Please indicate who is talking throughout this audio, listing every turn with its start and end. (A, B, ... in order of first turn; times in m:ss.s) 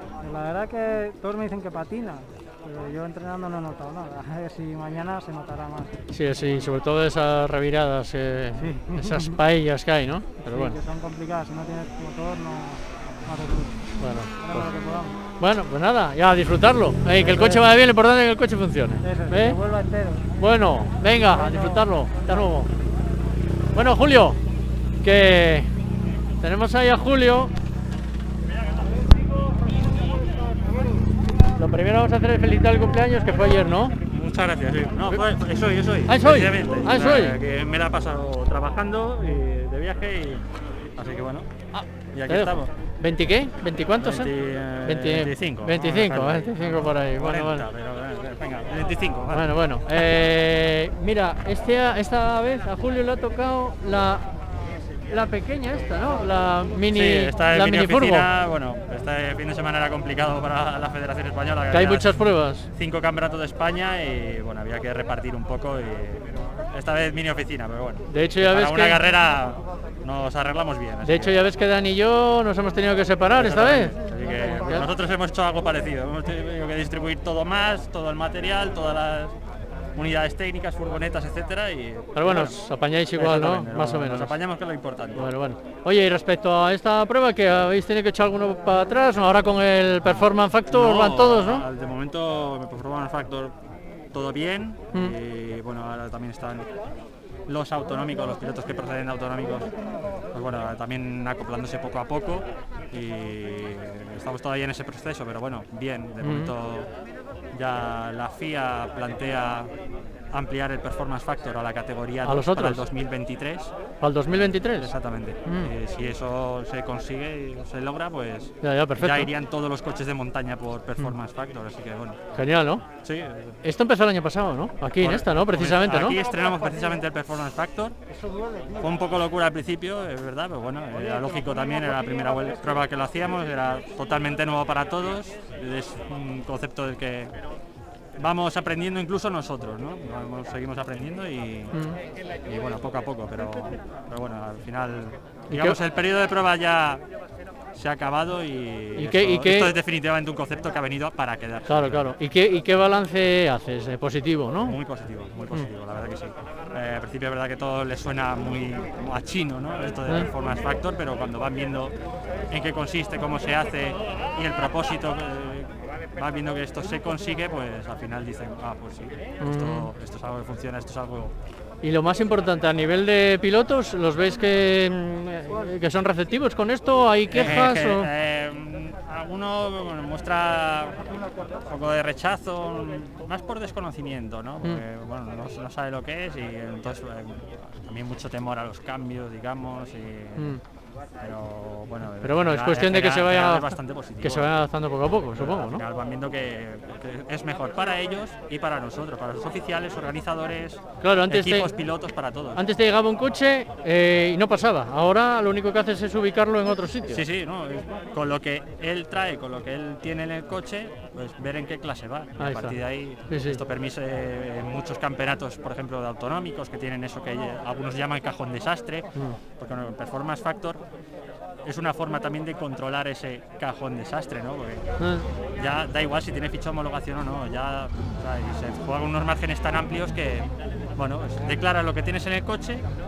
0:00.2-0:06.0 A
0:06.1-0:10.8 B
0:10.5-0:13.8 A
0:14.0-0:14.7 B
0:14.4-0:15.2 A
0:15.4-0:19.6 B
0:17.1-0:17.6 A
0:19.0-0:20.3 A
0:20.4-0:22.7 B
0:21.1-0:22.5 A
0:23.8-0:24.4 B
0:25.0-0:25.7 B
0:26.4-0:27.5 B
0:31.6-0:34.0 B
0:34.0-0:40.4 C
0:36.1-0:37.4 B
0:41.0-0:41.5 C
0:42.1-0:42.7 C
0:42.3-0:44.3 B
0:44.0-0:49.5 C
0:44.8-0:47.7 B
0:49.3-0:54.3 B
0:55.1-0:58.3 B
0:56.9-1:02.2 C
1:01.7-1:02.7 B
1:02.7-1:11.3 C
1:08.1-1:09.0 B
1:11.0-1:14.9 B
1:13.4-1:19.4 C
1:20.0-1:22.5 C
1:22.2-1:24.4 B
1:23.1-1:25.3 C
1:25.2-1:31.7 B
1:30.7-1:33.6 C
1:34.1-1:36.7 C
1:37.5-1:39.7 C
1:40.3-1:46.9 C
1:46.2-1:46.5 B
1:47.5-1:49.7 C
1:50.3-1:53.7 C
1:52.2-1:52.8 B
1:54.0-1:54.9 B
1:54.8-2:02.2 C
1:55.4-1:55.7 B
1:58.6-1:59.3 B
2:02.4-2:02.8 B
2:03.0-2:03.6 C
2:03.6-2:06.2 B
2:05.0-2:08.0 C
2:08.8-2:17.4 C
2:18.2-2:21.7 C
2:21.7-2:22.0 B
2:22.4-2:27.0 C
2:25.5-2:25.8 B
2:27.8-2:32.1 C
2:29.0-2:29.8 B
2:31.7-2:34.8 B
2:34.6-2:41.9 C
2:42.5-2:51.3 C
2:49.4-2:49.9 B
2:51.8-2:58.1 B
2:57.3-3:10.6 C
3:10.4-3:10.6 B
3:11.2-3:14.5 C
3:12.2-3:15.8 B
3:15.3-3:22.6 C
3:21.0-3:21.8 B
3:22.6-3:27.2 B
3:27.1-3:40.8 C
3:32.4-3:33.6 B
3:41.6-3:44.8 C
3:45.0-3:45.2 B
3:45.6-3:52.9 C